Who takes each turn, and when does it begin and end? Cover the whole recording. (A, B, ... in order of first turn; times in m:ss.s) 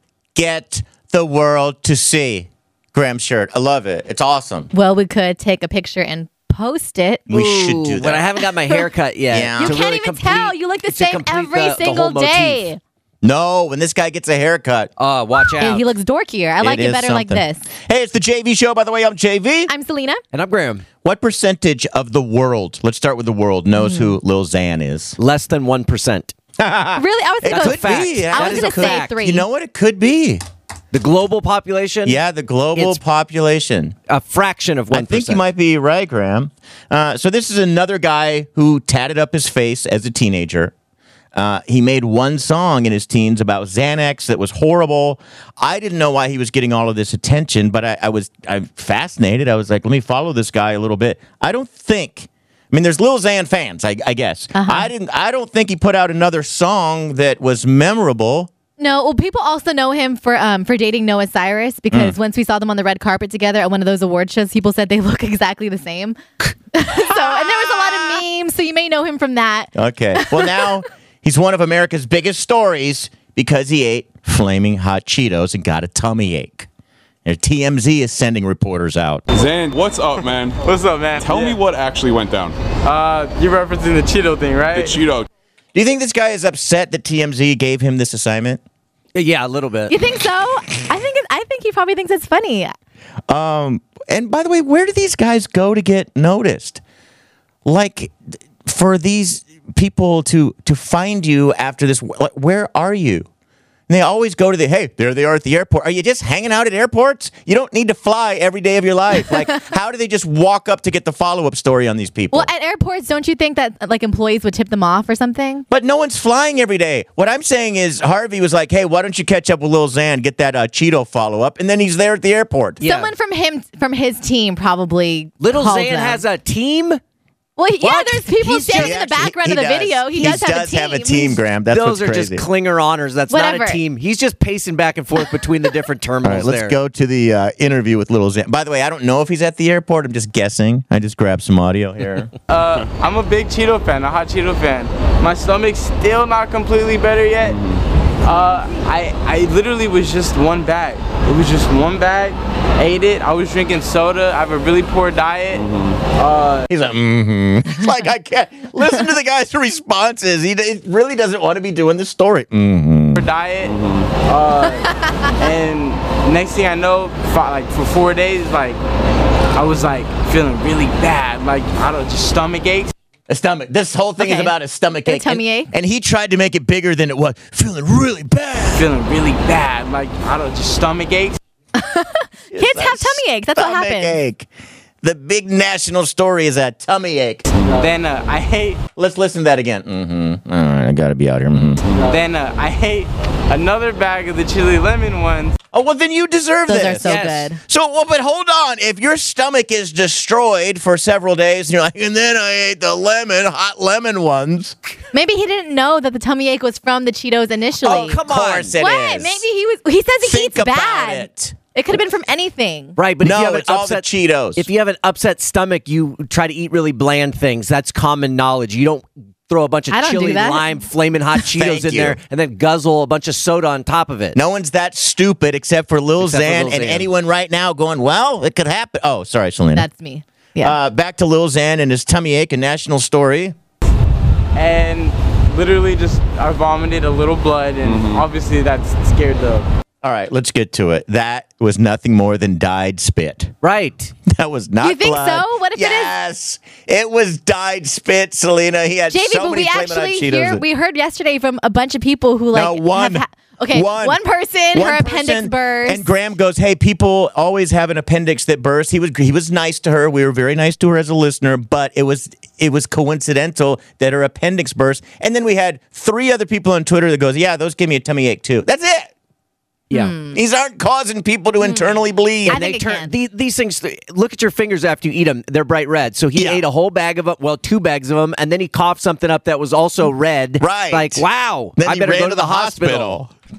0:00.4-0:04.7 A
0:04.7-0:07.2 B
0:07.3-0:08.3 A
0:07.3-0:12.6 C
0:08.6-0:08.9 B
0:09.3-0:09.8 A
0:09.6-0:12.8 B
0:13.2-0:14.9 A
0:15.0-0:15.9 C
0:15.5-0:17.6 B
0:16.6-0:19.7 A
0:19.7-0:20.2 B
0:20.3-0:20.8 C
0:21.0-0:25.2 A
0:23.8-0:24.2 B
0:25.2-0:26.4 C
0:26.6-0:30.4 A
0:27.0-0:29.4 B
0:27.4-0:29.2 C
0:30.9-0:32.2 C
0:32.0-0:34.0 A
0:32.8-0:33.0 C
0:34.1-0:35.4 C
0:34.9-0:40.7 A
0:41.3-0:58.5 A
0:54.6-0:54.9 B
0:58.8-1:06.2 B
1:01.9-1:02.2 A
1:06.7-1:10.3 B
1:07.0-1:08.2 A
1:09.8-1:16.7 A
1:17.2-1:19.2 A
1:19.3-1:20.6 D
1:20.6-1:21.6 E
1:21.2-1:22.6 D
1:22.8-1:25.0 E
1:24.7-1:25.3 D
1:25.7-1:28.6 A
1:29.2-1:30.0 C
1:29.9-1:32.7 B
1:33.3-1:36.8 A
1:37.6-1:43.3 A
1:43.9-1:52.5 A
1:52.3-1:55.6 B
1:55.7-2:02.8 A
2:02.8-2:03.1 C
2:02.8-2:06.2 B
2:05.4-2:07.0 C
2:07.6-2:11.4 B
2:07.8-2:09.1 C
2:08.7-2:12.5 A
2:11.7-2:16.8 C
2:13.3-2:13.8 B
2:16.2-2:22.3 A
2:22.5-2:27.6 E
2:27.4-2:27.8 D
2:28.2-2:36.7 E
2:35.5-2:36.0 D
2:36.7-2:43.2 A
2:43.2-2:48.8 E
2:43.6-2:44.1 D
2:49.5-2:52.9 E
2:53.3-2:58.9 A
2:54.2-2:54.5 B
2:55.0-2:55.7 B
2:58.7-3:01.4 E
3:01.8-3:04.2 B
3:02.5-3:04.5 A
3:05.0-3:07.4 A
3:07.6-3:08.8 E
3:07.6-3:07.9 D
3:09.0-3:11.8 A
3:11.8-3:12.2 D
3:11.9-3:15.6 E
3:15.7-3:24.8 A
3:16.7-3:17.6 B
3:17.0-3:17.5 C
3:25.1-3:28.2 B
3:27.7-3:28.8 C
3:28.2-3:29.4 A
3:28.8-3:33.0 B
3:30.2-3:31.6 A
3:33.0-3:44.4 C
3:33.2-3:34.7 A
3:39.9-3:41.5 B
3:41.5-3:42.2 A
3:44.3-3:49.9 A
3:46.2-3:47.1 C
3:49.8-3:50.8 B
3:50.6-3:53.6 A
3:54.6-3:59.7 E
3:57.8-3:58.3 D
4:00.0-4:03.5 A
4:03.6-4:04.1 C
4:04.3-4:10.6 A
4:04.8-4:06.1 B
4:09.1-4:16.1 B
4:12.5-4:14.2 A
4:14.7-4:29.1 A
4:29.9-4:30.2 C
4:30.0-4:30.4 B
4:30.3-4:32.6 A
4:31.6-4:31.9 B
4:32.4-4:33.1 B
4:32.5-4:43.2 C
4:36.3-4:36.6 A
4:40.6-4:43.3 A